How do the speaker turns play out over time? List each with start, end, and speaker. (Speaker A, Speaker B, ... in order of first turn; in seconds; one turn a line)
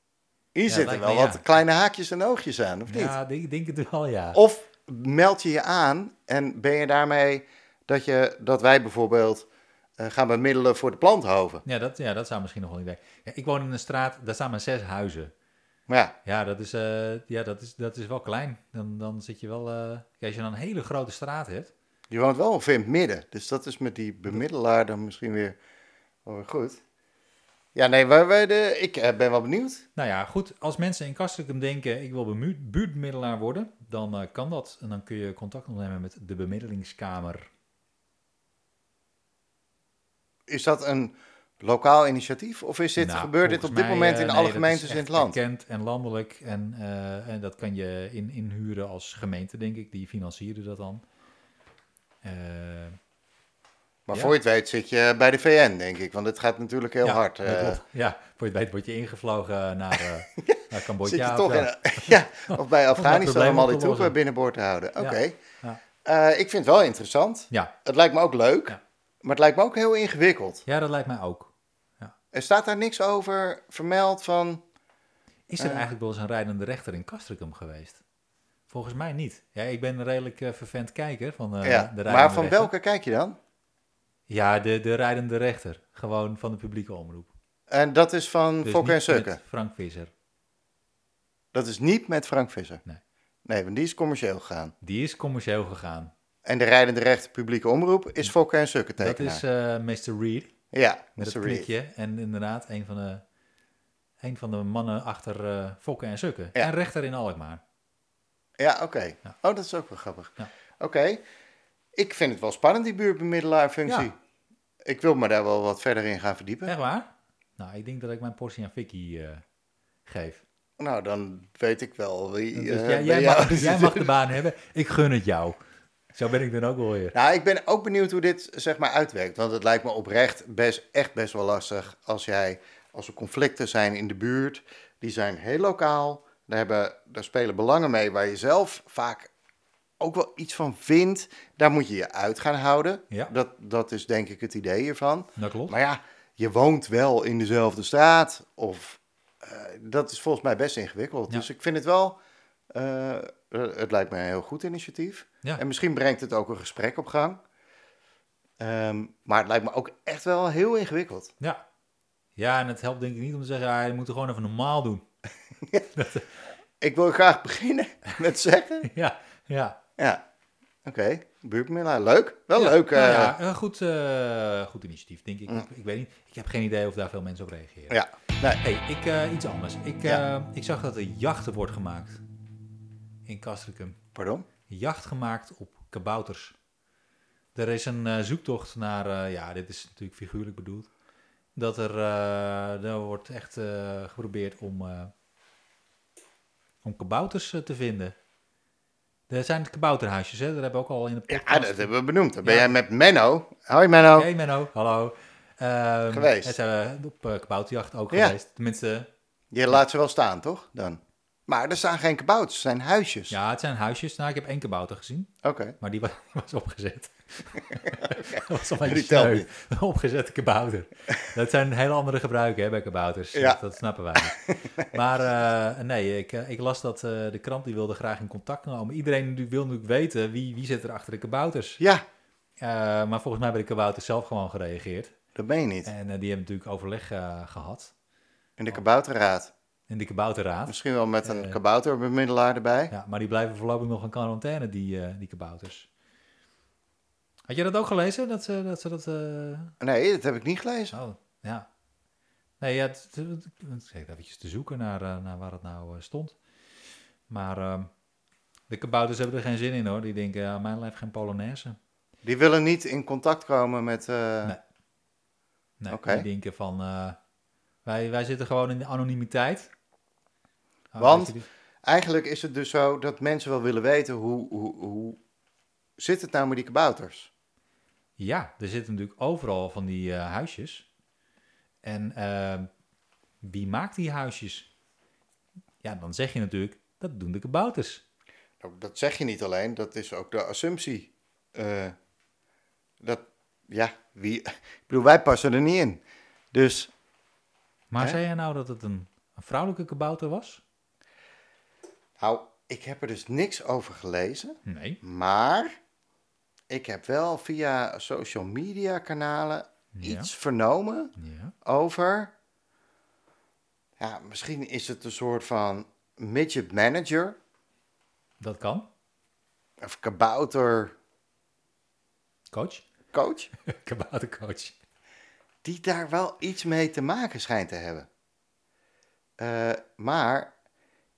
Speaker A: 0.5-3.1
Speaker B: 0.7-1.4
Speaker B: 2.9-4.4
Speaker A: 4.3-9.5
Speaker A: 10.0-11.6
Speaker B: 11.6-15.3
Speaker A: 15.9-16.1
Speaker B: 16.2-21.7
Speaker A: 22.1-25.6
Speaker A: 26.2-26.8
Speaker A: 27.7-29.8
Speaker B: 29.9-37.5
Speaker A: 40.5-45.4
Speaker B: 43.0-51.0
Speaker B: 52.2-53.0
Speaker A: 54.1-57.8
Speaker B: 57.0-64.1
Speaker A: 60.4-65.4
Speaker B: 65.0-65.8
Speaker A: 66.0-70.6
Speaker B: 70.7-72.1
Speaker A: 72.3-74.6
Speaker B: 75.5-78.0
Speaker A: 75.6-75.9
Speaker B: 78.7-82.7
Speaker A: 81.6-83.4
Speaker B: 84.3-87.3
Speaker A: 87.7-89.4
Speaker B: 88.6-90.1
Speaker A: 91.5-92.8
Speaker A: 93.5-94.7
Speaker B: 94.8-96.1
Speaker A: 96.4-99.4
Speaker B: 99.0-100.5
Speaker A: 100.7-101.7
Speaker B: 101.2-103.2
Speaker B: 104.2-107.6
Speaker A: 108.6-111.2
Speaker A: 111.9-114.2
Speaker B: 113.8-114.1
Speaker A: 114.8-116.7
Speaker B: 116.6-119.4
Speaker B: 120.0-120.4
Speaker A: 120.8-124.1
Speaker B: 122.5-125.6
Speaker B: 126.1-127.1
Speaker A: 127.1-139.3
Speaker A: 140.0-152.2
Speaker B: 145.4-145.7
Speaker A: 152.7-157.4
Speaker A: 158.6-161.3
Speaker B: 162.4-165.0
Speaker B: 165.9-166.2
Speaker A: 166.8-168.9
Speaker B: 168.8-169.8
Speaker A: 170.0-170.2
Speaker A: 170.8-173.3
Speaker B: 172.5-178.0
Speaker A: 177.9-178.6
Speaker B: 178.6-182.2
Speaker B: 183.2-184.0
Speaker A: 184.1-184.5
Speaker B: 184.7-186.5
Speaker B: 187.5-190.9
Speaker B: 191.6-195.1
Speaker B: 196.8-198.1
Speaker B: 199.3-201.9
Speaker A: 201.3-204.3
Speaker B: 202.4-202.7
Speaker B: 204.1-209.1
Speaker A: 206.1-206.6
Speaker A: 209.5-213.3
Speaker B: 213.3-231.8
Speaker A: 215.4-215.8
Speaker A: 217.9-219.5
Speaker A: 223.3-223.6
Speaker A: 224.2-225.0
Speaker A: 231.8-232.0
Speaker B: 232.6-235.1
Speaker A: 235.3-235.9
Speaker B: 235.8-237.9
Speaker A: 238.6-239.5
Speaker B: 239.9-241.6
Speaker A: 240.7-242.9
Speaker B: 242.9-245.9
Speaker B: 247.5-249.7
Speaker A: 249.8-250.9
Speaker B: 250.9-251.7
Speaker B: 252.6-256.4
Speaker B: 257.3-257.9
Speaker B: 258.7-261.8
Speaker A: 262.2-264.6
Speaker B: 265.8-267.2
Speaker A: 265.9-266.2
Speaker B: 267.8-269.7
Speaker B: 270.9-271.4
Speaker A: 271.0-275.2
Speaker A: 276.0-277.3
Speaker B: 278.2-280.9
Speaker B: 281.8-282.7
Speaker B: 283.4-284.7
Speaker B: 285.8-288.0
Speaker A: 288.6-291.9
Speaker A: 293.0-296.0
Speaker A: 296.5-296.9
Speaker B: 297.9-300.6
Speaker A: 302.2-305.8
Speaker B: 304.6-305.0
Speaker A: 306.7-311.1
Speaker B: 309.9-310.3
Speaker B: 311.2-311.5
Speaker A: 311.6-312.3
Speaker A: 314.0-317.4
Speaker B: 318.4-318.9
Speaker A: 319.8-320.9
Speaker B: 322.5-322.9
Speaker A: 323.1-323.5
Speaker B: 323.7-324.7
Speaker A: 325.6-328.1
Speaker A: 329.4-330.5